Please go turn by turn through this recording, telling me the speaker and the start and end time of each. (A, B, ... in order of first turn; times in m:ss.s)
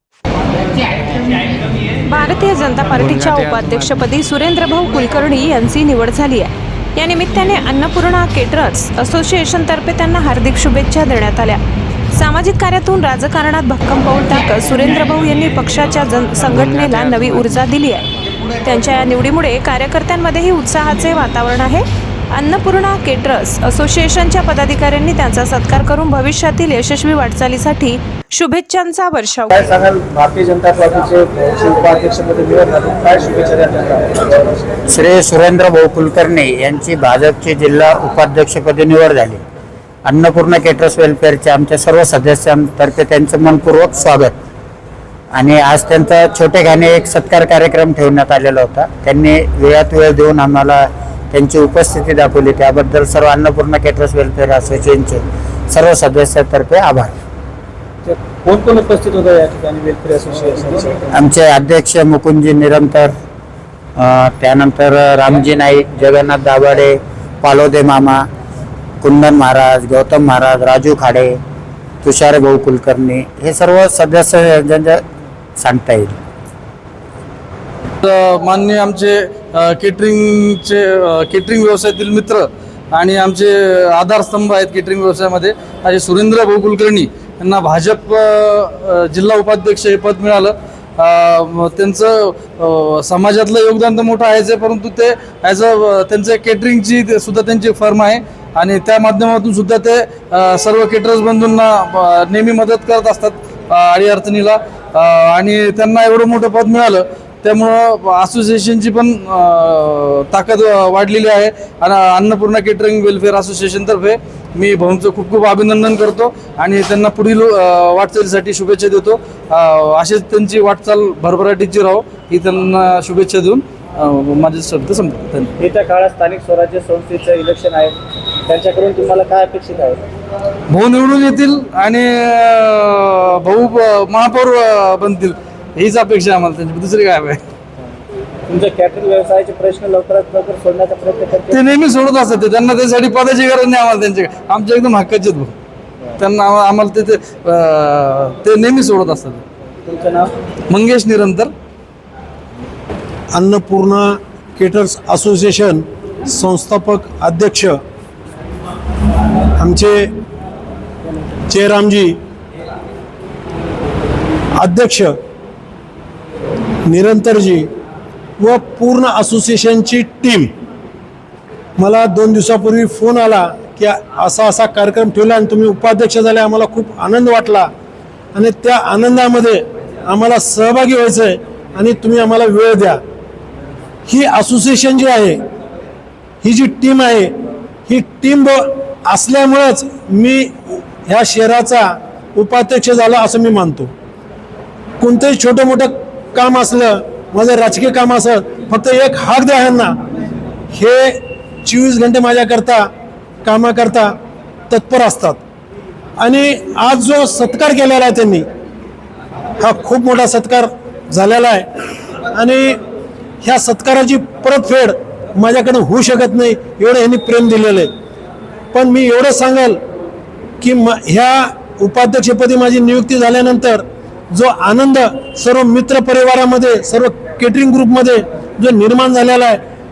0:02.0-0:11.6 A
0:12.1-0:18.0 A
0:18.6-0:29.6 A
0:29.5-0:34.6 B
0:34.9-0:39.4 C
0:40.0-0:44.3 C
0:45.3-0:57.1 C
0:58.0-1:01.1 B
1:01.1-1:03.1 C
1:04.0-1:08.2 C
1:09.0-1:11.4 C
1:12.0-1:15.0 C
1:15.6-1:16.2 C
1:18.0-2:05.5 D
2:05.6-2:08.0 B
2:08.5-2:10.0 B
2:10.7-2:17.4 D
2:18.5-2:21.6 B
2:21.5-2:25.5 D
2:26.2-2:29.4 D
2:29.8-2:30.3 B
2:30.7-2:31.5 D
2:33.3-2:37.8 E
2:39.6-2:40.1 E
2:41.5-2:42.2 E
2:44.6-2:45.1 E
2:46.8-2:47.7 E
2:48.4-2:50.5 E
2:51.8-2:57.7 E
2:58.3-3:03.0 E
3:04.1-3:05.4 E
3:06.4-3:07.3 E
3:07.9-3:13.9 E
3:15.0-3:19.9 E
3:20.7-3:22.9 E
3:23.4-3:24.1 E
3:24.7-3:25.4 E
3:26.2-3:28.4 E
3:29.6-3:31.7 E
3:32.3-3:32.8 E
3:33.4-3:37.9 E
3:38.7-3:39.8 E
3:40.6-3:49.6 E